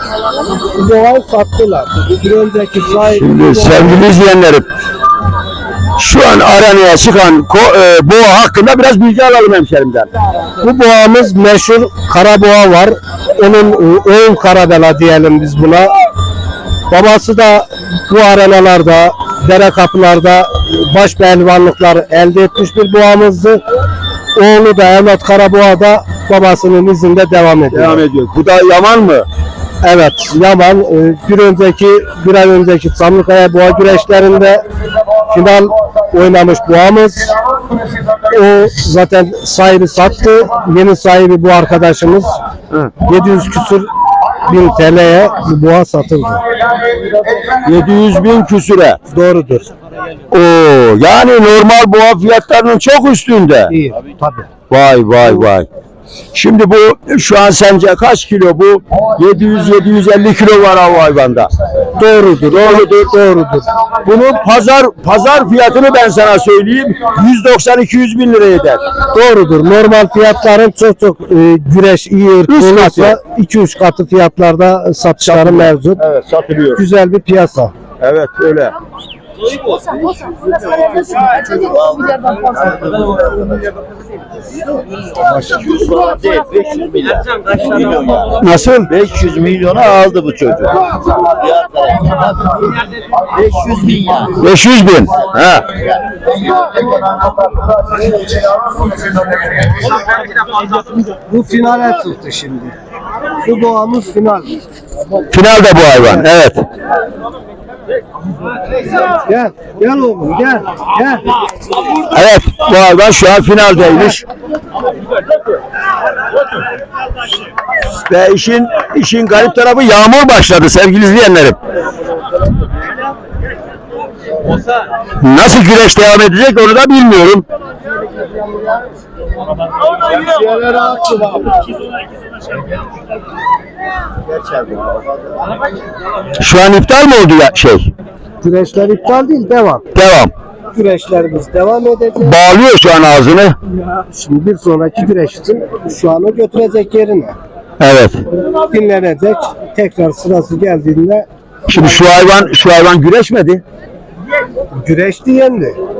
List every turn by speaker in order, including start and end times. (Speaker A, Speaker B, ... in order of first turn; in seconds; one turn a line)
Speaker A: 0.6-4.1
Speaker B: 3.0-4.7
Speaker B: 6.0-10.1
Speaker A: 10.6-15.9
Speaker A: 16.9-23.6
Speaker A: 24.4-28.1
Speaker B: 27.7-29.3
Speaker A: 29.8-34.6
Speaker A: 35.3-37.3
Speaker A: 38.3-42.3
Speaker A: 43.0-43.9
Speaker A: 44.4-46.4
Speaker B: 47.5-49.0
Speaker A: 49.1-49.7
Speaker B: 50.3-53.8
Speaker A: 53.7-54.5
Speaker B: 54.7-55.7
Speaker B: 56.3-61.5
Speaker A: 62.0-63.7
Speaker B: 62.5-62.9
Speaker B: 64.0-68.8
Speaker A: 69.1-76.0
Speaker B: 72.5-73.2
Speaker B: 75.2-76.8
Speaker A: 76.8-77.7
Speaker B: 78.0-78.8
Speaker C: 80.8-83.7
Speaker A: 85.2-85.7
Speaker C: 85.5-88.4
Speaker B: 88.4-90.7
Speaker C: 89.0-92.8
Speaker C: 93.3-94.4
Speaker B: 94.3-95.7
Speaker A: 101.1-102.7
Speaker A: 103.4-104.6
Speaker B: 105.3-106.7
Speaker A: 109.1-111.3
Speaker B: 112.0-114.2
Speaker B: 118.1-121.6
Speaker B: 125.2-127.5
Speaker C: 130.2-131.4
Speaker C: 134.3-135.1
Speaker B: 136.4-137.9
Speaker A: 138.4-139.9
Speaker B: 139.9-140.3
Speaker A: 140.7-142.4
Speaker B: 142.2-143.6
Speaker A: 144.1-147.4
Speaker B: 147.8-148.2
Speaker A: 148.7-152.5
Speaker B: 151.7-153.6
Speaker A: 154.8-155.8